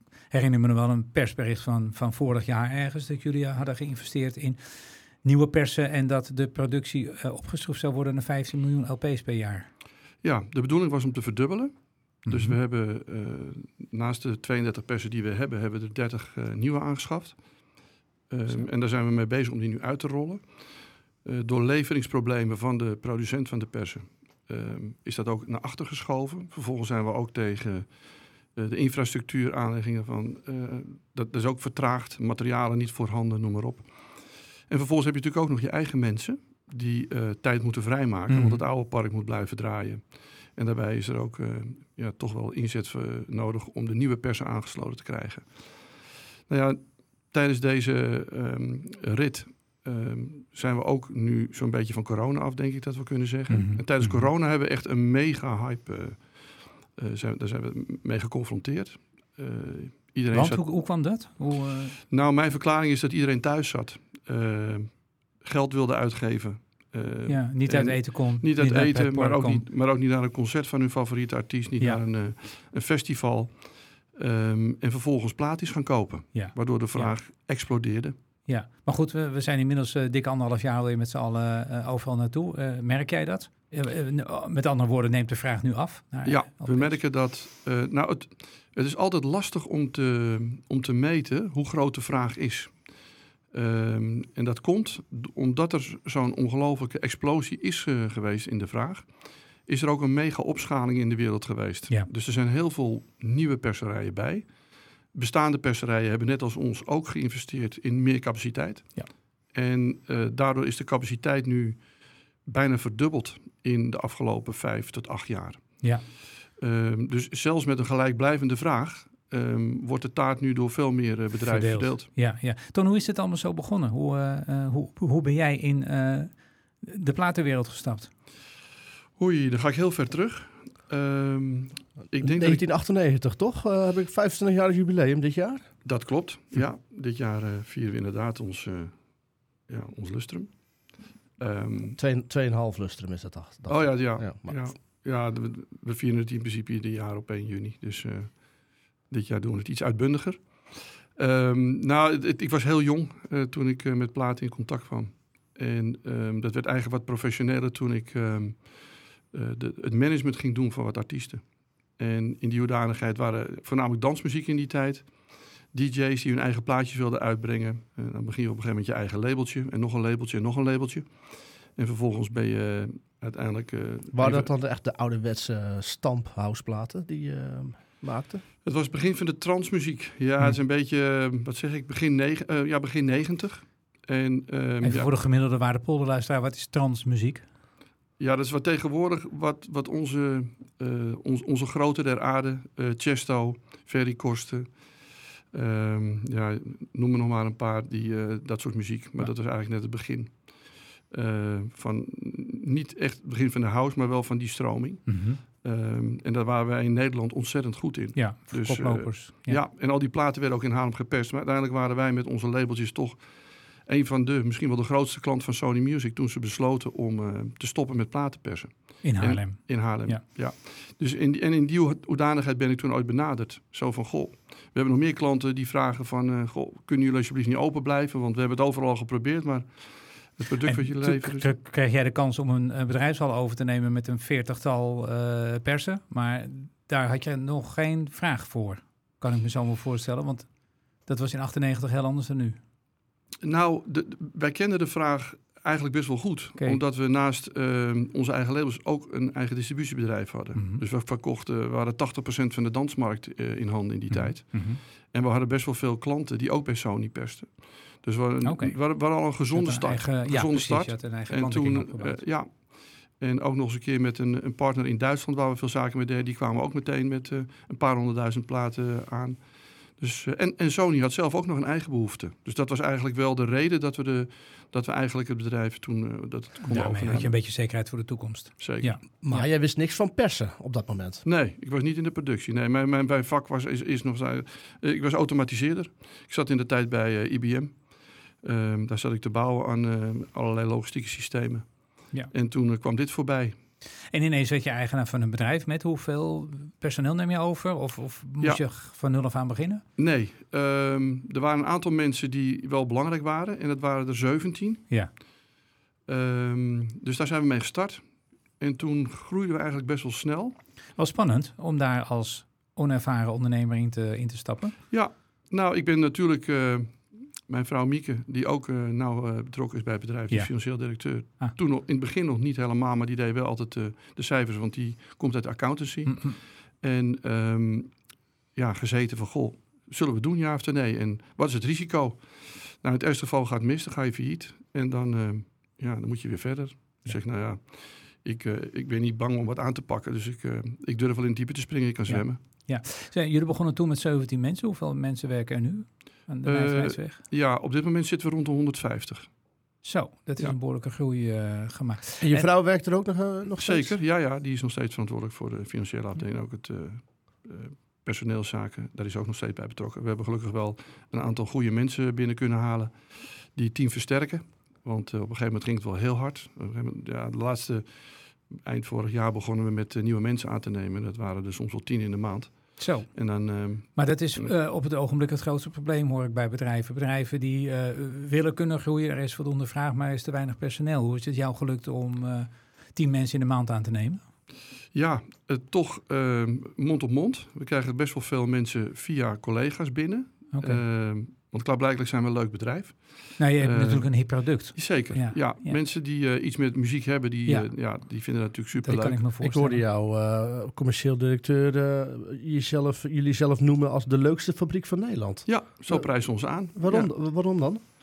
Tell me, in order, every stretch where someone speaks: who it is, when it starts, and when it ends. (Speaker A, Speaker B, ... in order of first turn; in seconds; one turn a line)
Speaker A: 0.3-9.7
Speaker B: 10.2-17.8
Speaker A: 12.3-12.6
Speaker B: 18.3-60.7
Speaker A: 38.3-38.6
Speaker A: 53.5-54.3
Speaker A: 60.3-62.0
Speaker B: 62.1-78.2
Speaker A: 67.3-69.6
Speaker A: 76.3-77.1
Speaker A: 78.5-87.0
Speaker B: 86.2-115.9
Speaker B: 116.6-122.1
Speaker A: 121.5-128.1
Speaker B: 129.2-132.6
Speaker C: 132.2-135.7
Speaker B: 135.8-139.1
Speaker B: 139.7-142.0
Speaker C: 142.0-144.6
Speaker B: 143.7-174.5
Speaker C: 174.1-178.4
Speaker B: 178.6-185.1
Speaker A: 184.8-187.4
Speaker B: 188.2-231.5
Speaker A: 205.1-205.4
Speaker A: 208.2-209.6
Speaker A: 219.0-220.2
Speaker A: 230.6-242.6
Speaker B: 243.4-277.4
Speaker A: 250.6-250.8
Speaker A: 254.1-254.8
Speaker A: 258.4-262.2
Speaker A: 276.7-279.5
Speaker B: 278.6-278.9
Speaker C: 279.2-281.2
Speaker B: 281.2-293.6
Speaker A: 294.1-299.8
Speaker B: 300.0-304.9
Speaker B: 306.1-310.6
Speaker A: 311.0-314.8
Speaker B: 314.9-328.0
Speaker A: 320.3-321.6
Speaker A: 326.1-326.4
Speaker B: 328.6-342.4
Speaker A: 342.1-347.2
Speaker B: 346.4-349.4
Speaker A: 349.8-352.5
Speaker C: 352.2-354.0
Speaker B: 353.6-374.5
Speaker A: 372.8-373.3
Speaker A: 373.8-384.2
Speaker B: 384.9-399.2
Speaker A: 390.5-390.8
Speaker A: 393.4-395.8
Speaker A: 398.8-399.8
Speaker C: 399.4-407.8
Speaker B: 405.5-407.1